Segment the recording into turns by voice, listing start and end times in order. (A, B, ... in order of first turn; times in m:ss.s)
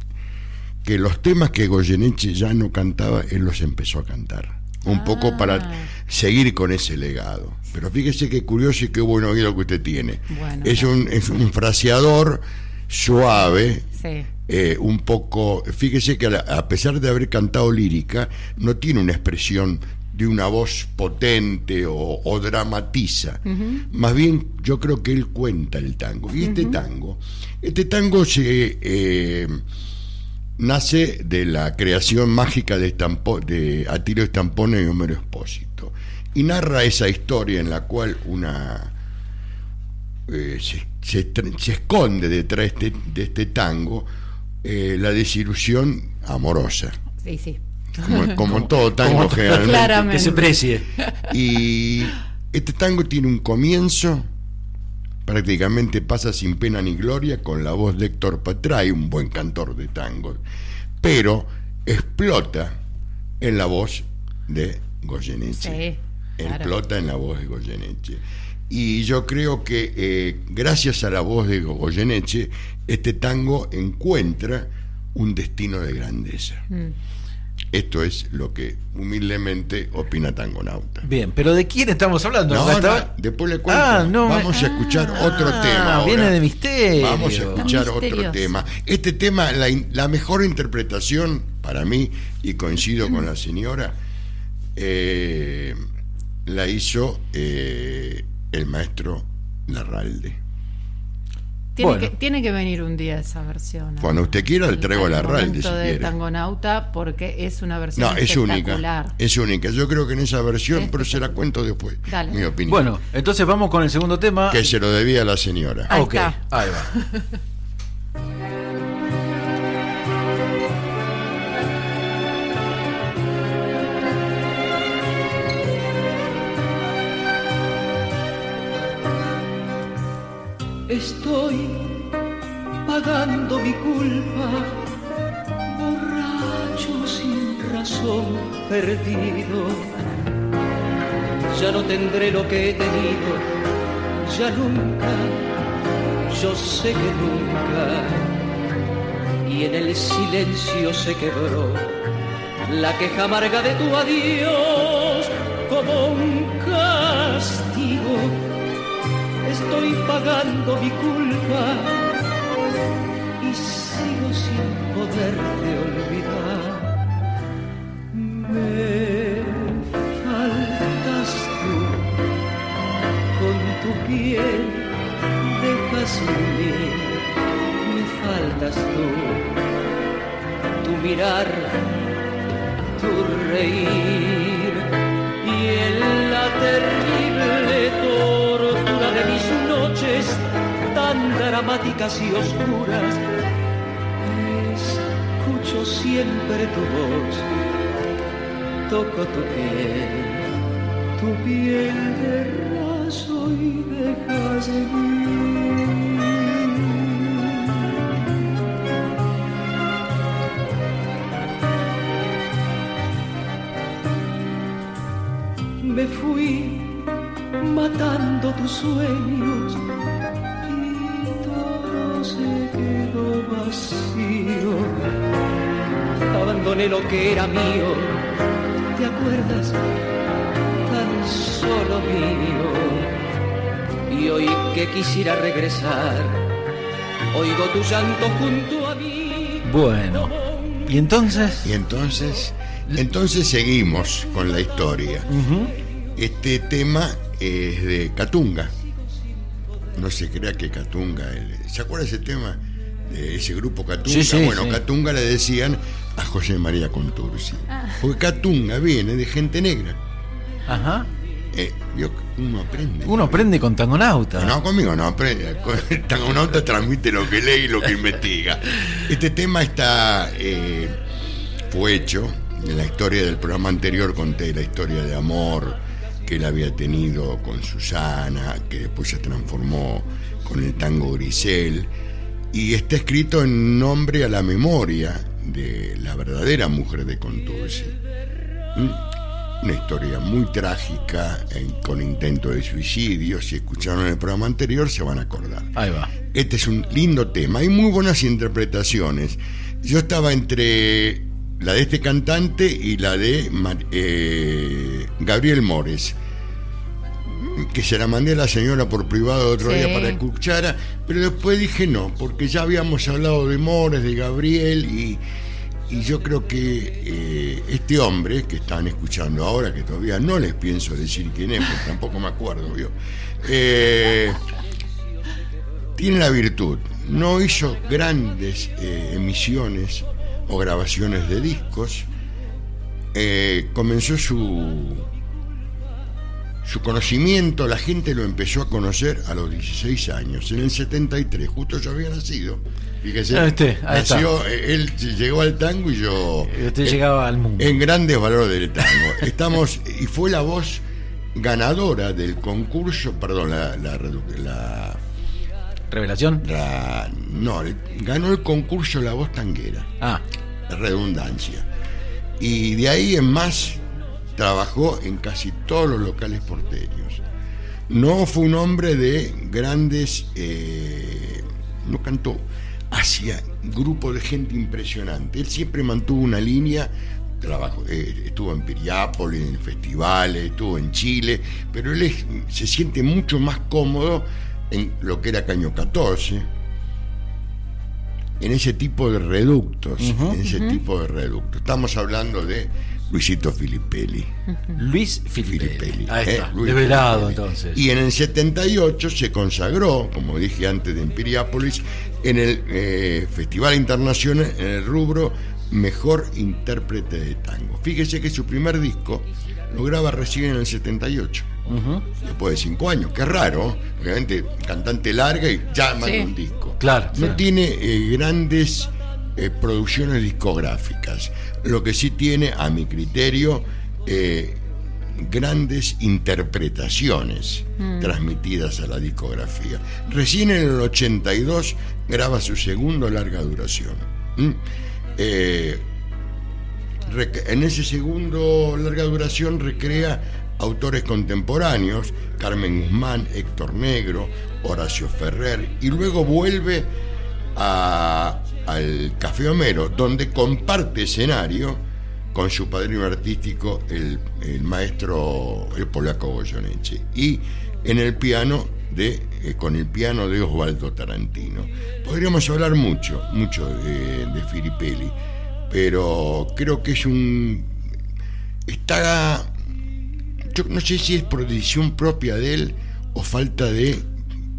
0:00.8-0:13.9 A
0:14.5-0:29.6 A
0:23.5-0:23.8 B
0:26.5-0:26.7 B
0:30.6-0:38.9 A
0:40.3-0:44.1 A
0:44.6-0:47.0 A
0:47.2-0:47.6 B
0:48.0-0:50.4 A
0:48.4-0:50.9 C
0:51.3-0:54.3 A
0:55.2-1:00.4 A
1:01.0-1:02.8 A
1:03.4-1:05.8 A
1:05.6-1:06.0 B
1:06.4-1:16.7 A
1:17.7-1:21.1 A
1:21.0-1:23.1 C
1:22.5-1:26.4 A
1:23.7-1:27.7 C
1:26.9-1:34.0 A
1:27.6-1:28.5 B
1:34.8-1:35.8 A
1:36.4-1:40.4 A
1:41.8-1:42.1 C
1:42.0-1:44.1 B
1:44.0-1:46.2 A
1:44.7-1:49.1 B
1:48.0-1:52.9 A
1:50.8-1:51.2 B
1:52.1-1:52.4 B
1:52.7-1:54.7 C
1:54.5-1:56.0 A
1:55.9-1:56.9 C
1:55.9-1:56.2 B
1:56.9-1:57.2 B
2:10.9-2:11.8 D
2:12.8-2:14.7 D
2:15.7-2:19.9 D
2:21.5-2:23.4 D
2:24.2-2:25.4 D
2:26.3-2:28.3 D
2:29.4-2:31.8 D
2:32.7-2:38.4 D
2:39.4-2:42.2 D
2:43.4-2:47.0 D
2:48.1-2:52.2 D
2:53.4-2:57.2 D
2:57.8-2:59.5 D
3:00.8-3:01.8 D
3:03.0-3:04.9 D
3:05.4-3:13.2 D
3:14.2-3:17.5 D
3:18.9-3:20.5 D
3:21.2-3:26.3 D
3:35.8-3:36.9 D
3:37.6-3:39.8 D
3:40.7-3:44.9 D
3:46.3-3:48.2 D
3:49.0-3:49.8 D
3:50.9-3:53.1 D
3:54.1-3:56.4 D
3:57.3-3:59.6 D
3:59.6-4:01.7 C
4:01.6-4:05.3 A
4:05.3-4:05.7 C
4:06.2-4:08.7 A
4:09.9-4:20.0 A
4:14.1-4:14.8 C
4:20.7-4:21.1 C
4:21.5-4:23.5 A
4:23.0-4:24.5 C
4:24.3-4:30.9 A
4:31.7-4:41.9 A
4:42.5-4:48.0 A
4:48.7-4:49.0 A
4:49.6-4:55.7 A
4:55.7-4:56.1 C
4:56.3-5:06.2 A
5:07.3-5:15.2 A
5:09.6-5:10.2 B
5:15.9-5:24.4 A
5:26.0-5:32.1 A
5:33.1-5:35.1 A
5:36.6-5:47.0 A
5:43.3-5:44.3 C
5:46.4-5:47.8 C
5:47.6-5:55.0 A
5:55.9-5:56.4 C
5:56.4-5:59.9 A
6:00.7-6:01.7 A
6:02.4-6:03.8 A
6:04.4-6:07.2 A
6:07.9-6:26.5 A
6:28.4-6:34.3 A
6:30.0-6:30.4 C
6:34.8-6:37.8 C
6:35.3-6:51.6 A
6:51.7-6:52.0 C
6:52.2-7:04.6 A
6:56.8-6:57.4 C
7:05.2-7:14.6 A
7:07.8-7:08.1 B
7:15.2-7:15.9 A
7:17.0-7:26.9 A
7:27.5-7:45.2 A
7:45.7-7:47.8 A
7:48.7-7:49.5 A
7:50.5-7:54.1 A